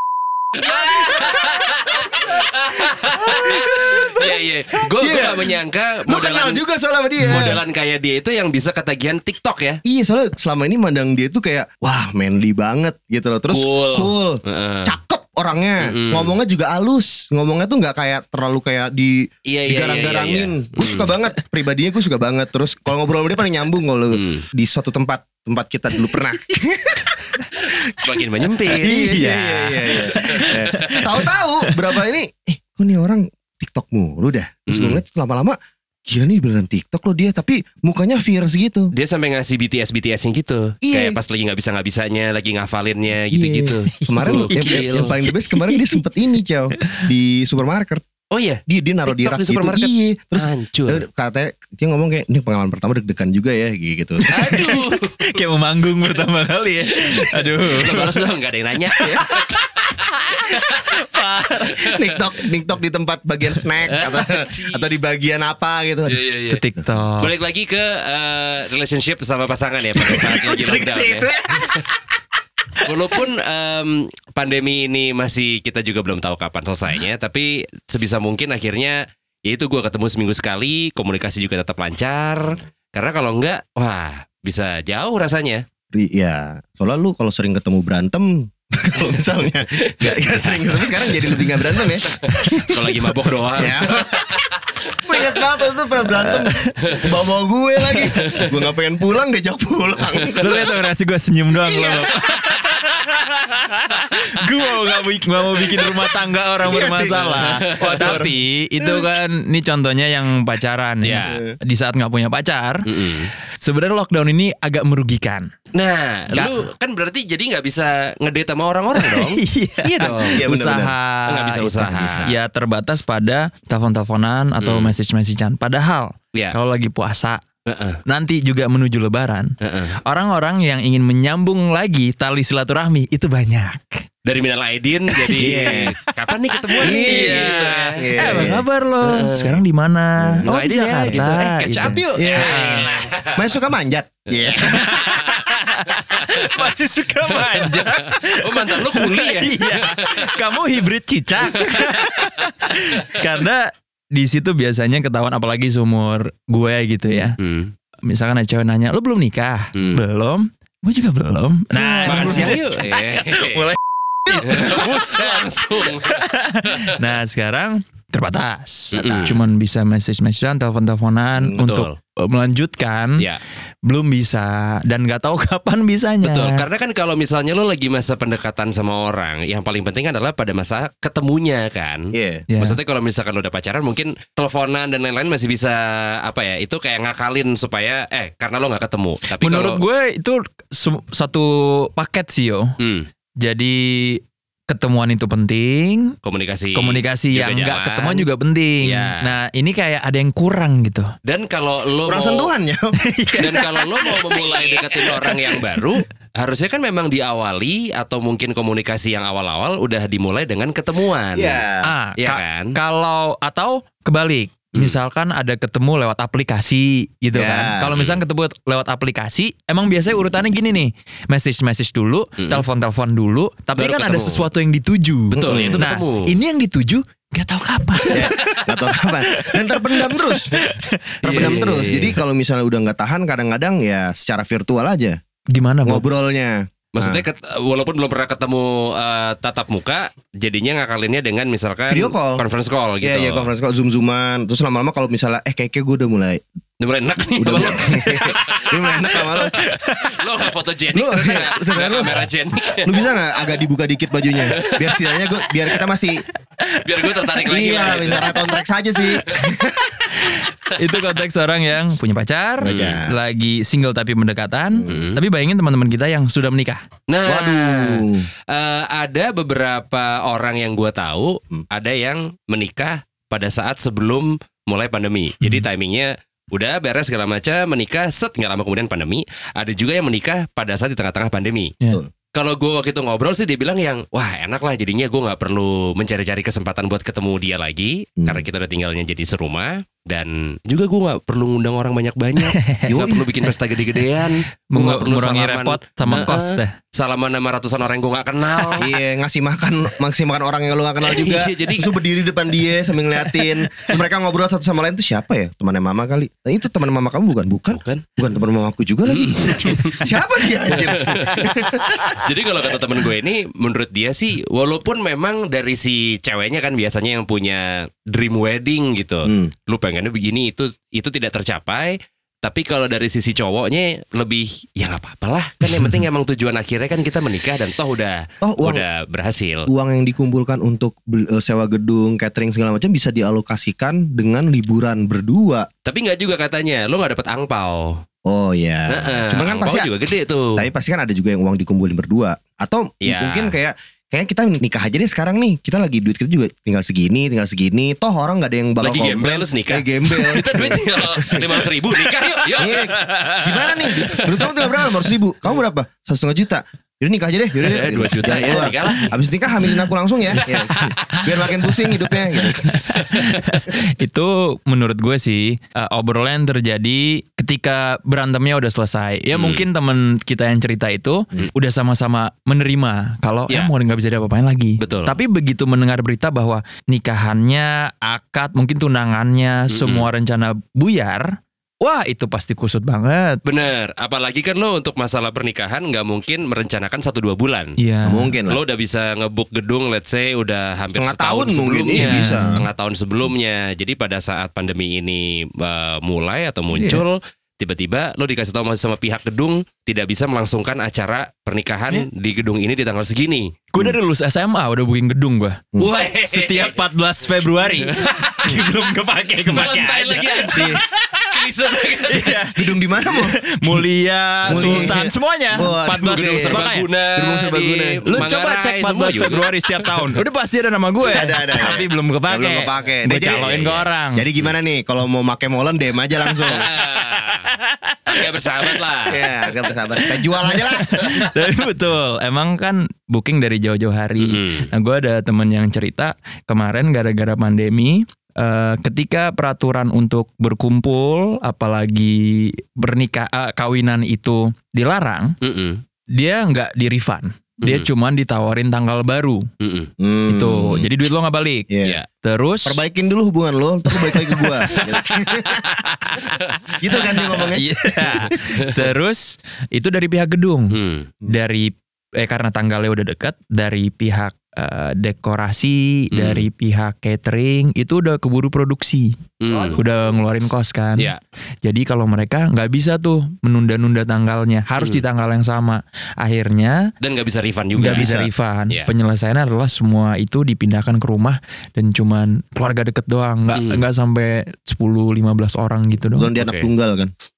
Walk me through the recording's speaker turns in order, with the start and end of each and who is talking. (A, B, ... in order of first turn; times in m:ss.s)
0:00.6-0:06.6 A
0:03.5-0:04.3 B
0:05.0-0:07.6 B
0:07.2-0:09.8 A
0:09.8-0:27.3 B
0:13.5-0:15.0 A
0:15.8-0:16.3 A
0:19.5-0:21.1 A
0:24.1-0:24.4 A
0:28.0-0:31.1 A
0:28.7-0:38.9 B
0:28.8-0:31.7 C
0:34.7-0:35.0 A
0:38.9-0:45.2 A
0:40.8-0:41.2 B
0:43.3-0:48.0 B
0:43.9-0:46.0 C
0:48.3-0:51.0 A
0:48.7-0:54.8 B
0:54.3-0:55.2 A
0:54.3-0:58.2 C
0:57.7-1:00.9 A
0:58.9-0:59.6 C
1:00.3-1:01.6 C
1:01.7-1:02.1 A
1:01.8-1:06.2 B
1:03.9-1:04.9 A
1:06.1-1:06.6 A
1:06.5-1:07.3 C
1:07.2-1:11.9 A
1:10.0-1:11.8 B
1:12.8-1:25.6 A
1:25.9-1:32.9 B
1:29.8-1:34.5 A
1:33.6-1:40.7 B
1:35.1-1:35.4 A
1:36.2-1:36.7 C
1:38.0-1:38.5 A
1:40.4-1:55.5 C
1:41.6-1:42.1 B
1:42.2-1:42.5 A
1:46.6-1:49.1 B
1:47.1-1:48.2 A
1:51.0-1:51.4 A
1:51.3-1:51.6 B
1:52.8-1:53.3 A
1:55.7-2:00.4 A
1:59.0-2:07.4 C
2:00.3-2:01.0 B
2:01.3-2:02.3 A
2:01.8-2:02.4 B
2:04.6-2:04.9 A
2:07.7-2:08.0 A
2:08.0-2:09.5 C
2:09.6-2:10.0 A
2:10.0-2:14.0 C
2:14.2-2:19.6 A
2:15.1-2:16.1 C
2:15.4-2:15.9 B
2:16.7-2:22.9 C
2:16.8-2:18.6 B
2:20.2-2:24.9 B
2:20.4-2:23.5 A
2:24.3-2:26.7 A
2:24.6-2:37.4 C
2:27.3-2:30.4 A
2:31.4-2:32.5 A
2:37.4-2:37.7 A
2:38.0-2:43.8 C
2:39.8-2:40.0 A
2:41.8-2:43.7 A
2:42.1-2:42.6 B
2:44.3-2:47.0 A
2:44.3-2:53.2 C
2:48.9-2:49.4 A
2:49.0-2:49.4 B
2:51.5-2:51.9 A
2:53.8-2:56.6 C
2:56.2-3:09.8 A
3:02.1-3:02.4 B
3:02.5-3:02.8 C
3:09.3-3:12.7 C
3:12.8-3:13.1 A
3:13.4-3:16.2 C
3:16.2-3:18.3 A
3:16.7-3:21.1 C
3:18.8-3:19.2 A
3:21.2-3:22.5 A
3:22.0-3:23.6 B
3:23.0-3:24.4 C
3:23.4-3:31.6 A
3:24.4-3:24.8 B
3:25.1-3:25.8 C
3:31.3-3:31.9 B
3:31.8-3:51.6 C
3:32.2-3:32.7 A
3:37.3-3:37.9 B
3:37.9-3:38.2 A
3:42.4-3:42.6 A
3:43.8-3:44.5 A
3:45.3-3:46.4 A
3:45.3-3:45.8 B
3:48.1-3:50.6 B
3:51.2-3:55.2 B
3:51.2-3:52.2 A
3:55.5-3:56.0 C
3:55.8-3:57.2 B
3:57.0-4:03.5 A
4:01.9-4:02.4 B
4:03.0-4:06.4 B
4:06.8-4:13.1 A
4:07.4-4:09.6 B
4:10.9-4:12.3 B
4:12.8-4:16.2 B
4:14.5-4:15.2 A
4:16.6-4:18.5 C
4:16.8-4:18.3 A
4:17.4-4:20.0 B
4:20.2-4:26.8 C
4:22.6-4:23.2 B
4:22.6-4:23.0 A
4:24.7-4:25.0 B
4:24.8-4:25.2 A
4:27.1-4:41.8 A
4:27.2-4:28.3 B
4:42.3-4:58.9 A
4:48.2-4:48.4 B
4:52.4-4:53.1 C
4:52.9-4:53.3 B
4:54.7-4:56.7 C
4:58.5-4:58.8 C
4:58.8-5:12.1 B
5:01.0-5:02.0 A
5:07.7-5:08.0 A
5:09.1-5:10.1 A
5:10.7-5:29.7 A
5:19.2-5:19.5 B
5:28.4-5:28.8 B
5:29.7-5:35.7 B
5:35.8-5:38.0 A
5:38.2-5:39.9 B
5:38.9-5:40.6 A
5:40.5-5:51.6 B
5:43.0-5:43.6 A
5:48.8-5:55.0 A
5:52.6-6:02.8 B
5:57.6-5:59.1 A
6:00.4-6:01.5 A
6:02.4-6:23.4 C
6:02.9-6:03.4 A
6:09.3-6:09.7 A
6:14.8-6:15.2 A
6:19.7-6:20.1 A
6:23.4-6:27.7 A
6:27.8-6:28.3 C
6:28.0-6:28.6 B
6:28.5-6:43.5 A
6:30.9-6:32.5 B
6:31.9-6:32.6 C
6:36.7-6:37.0 C
6:43.7-6:45.6 C
6:45.8-6:46.8 A
6:46.3-6:51.2 C
6:47.6-6:48.6 A
6:49.5-6:52.4 A
6:50.5-6:50.8 B
6:52.1-6:56.9 C
6:52.5-6:53.8 B
6:54.4-6:55.0 A
6:54.5-6:58.2 B
6:56.0-7:00.2 A
6:58.0-7:04.3 C
7:01.0-7:06.7 B
7:03.2-7:03.9 A
7:06.4-7:08.2 C
7:06.4-7:07.4 A
7:08.1-7:09.2 A
7:09.1-7:10.9 B
7:10.0-7:25.4 C
7:11.0-7:11.3 A
7:14.2-7:14.7 A
7:25.4-7:25.8 A
7:26.1-7:29.4 C
7:29.6-7:29.9 A
7:30.0-7:30.9 B
7:30.3-7:31.7 C
7:31.7-7:32.0 B
7:32.2-7:32.8 C
7:32.6-7:35.8 B
7:33.9-7:36.5 C
7:34.7-7:35.1 A
7:36.8-7:38.3 B
7:37.3-7:49.2 C
7:38.3-7:38.6 A
7:40.7-7:41.1 A
7:46.1-7:46.5 A
7:49.4-7:49.8 A
7:49.5-7:49.8 B
7:49.8-7:51.1 C
7:51.6-7:56.9 C
7:57.0-7:58.2 A
7:57.8-8:06.3 C
7:57.8-7:58.3 B
8:03.5-8:03.8 A
8:06.1-8:07.1 B
8:06.4-8:06.7 A